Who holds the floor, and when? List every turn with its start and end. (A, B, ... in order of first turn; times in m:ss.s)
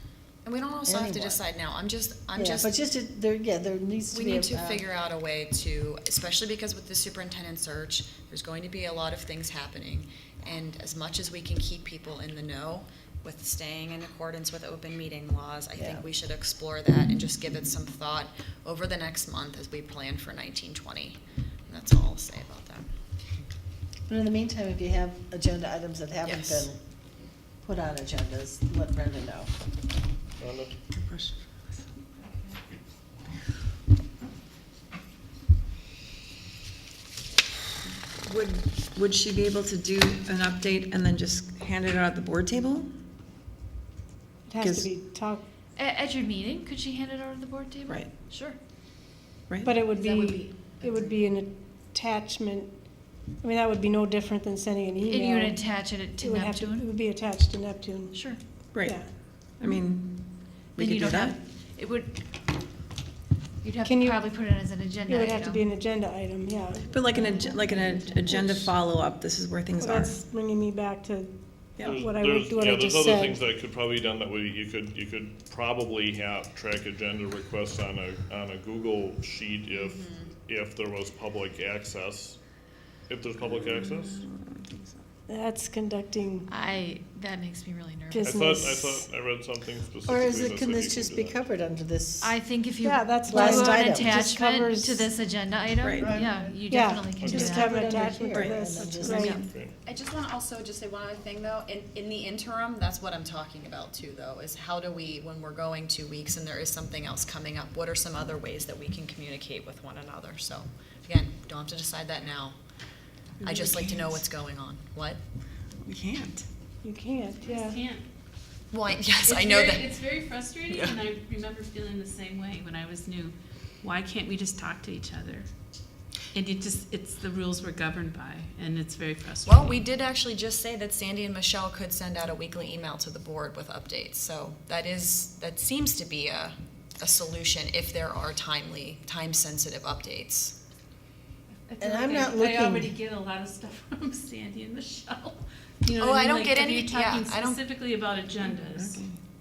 0:00.4-0:02.7 A
0:00.8-0:01.4 B
0:02.3-0:04.8 B
0:04.1-0:22.9 A
0:15.8-0:16.0 B
0:24.1-0:26.8 B
0:26.2-0:26.7 A
0:27.6-0:29.5 B
0:30.4-0:30.7 C
0:30.9-0:31.8 D
0:38.2-0:42.9 D
0:44.5-0:45.4 E
0:44.6-0:44.9 D
0:45.8-0:48.6 F
0:49.5-0:49.8 D
0:49.6-0:52.7 E
0:49.8-0:51.1 F
0:53.4-0:55.6 E
0:55.0-0:56.9 F
0:56.2-0:59.1 E
0:58.1-0:58.4 F
0:58.7-0:59.0 D
0:59.6-1:01.4 D
1:00.8-1:02.2 F
1:03.6-1:05.6 F
1:03.8-1:04.3 E
1:05.0-1:06.8 E
1:06.9-1:10.2 D
1:08.3-1:08.7 E
1:09.8-1:13.4 E
1:11.8-1:22.4 C
1:19.7-1:20.3 A
1:23.1-1:24.2 C
1:23.4-1:25.0 D
1:25.3-1:26.5 E
1:26.5-1:28.7 F
1:28.1-1:29.1 E
1:28.2-1:31.4 C
1:30.1-1:32.4 B
1:32.2-1:37.8 F
1:32.8-1:35.1 E
1:33.2-1:34.2 B
1:35.8-1:36.2 D
1:36.0-1:36.4 B
1:36.7-1:39.4 E
1:37.2-1:37.6 C
1:37.2-1:39.2 B
1:38.7-1:39.8 C
1:39.1-1:52.6 A
1:53.4-1:55.2 A
1:53.4-1:54.1 D
1:55.8-1:56.5 D
1:56.8-1:57.8 E
1:57.4-1:58.0 G
1:58.7-1:59.9 A
1:59.2-2:05.5 G
2:06.3-2:09.8 G
2:09.4-2:20.6 A
2:21.7-2:29.0 G
2:21.8-2:23.0 B
2:26.0-2:27.6 A
2:28.5-2:29.2 D